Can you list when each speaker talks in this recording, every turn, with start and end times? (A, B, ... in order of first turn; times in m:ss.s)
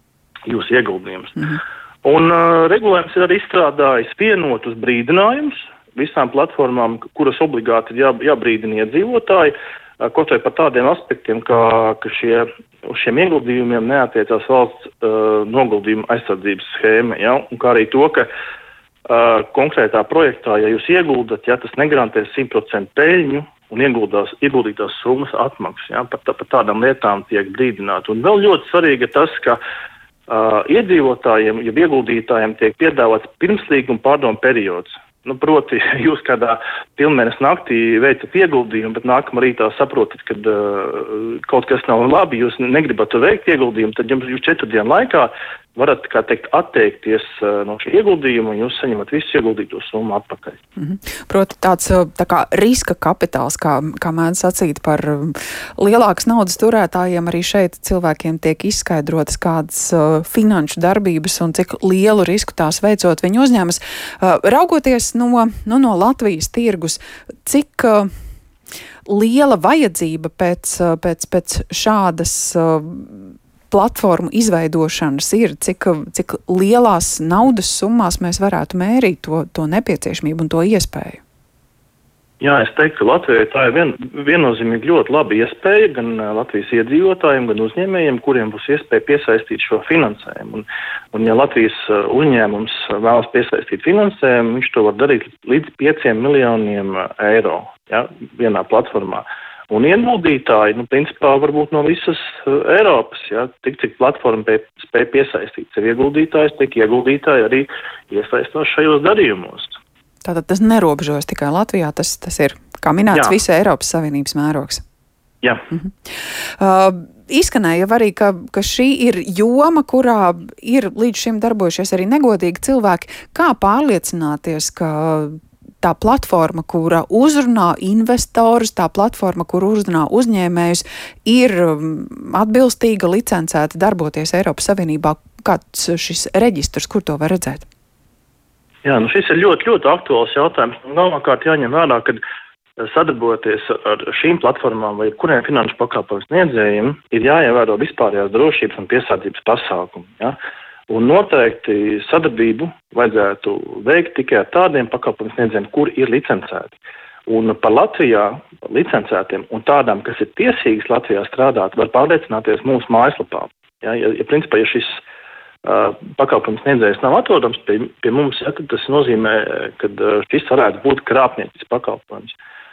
0:00.5-0:18.3 A
0:19.1-0:29.6 A
0:30.3-0:50.6 A
0:50.8-1:08.1 B
1:09.1-1:21.2 B
1:22.4-1:49.8 A
1:50.2-1:54.8 B
1:55.4-1:55.7 A
1:56.6-2:17.7 B
2:18.8-2:22.2 A
2:22.8-2:30.4 A
2:30.9-2:45.0 A
2:45.6-2:52.4 A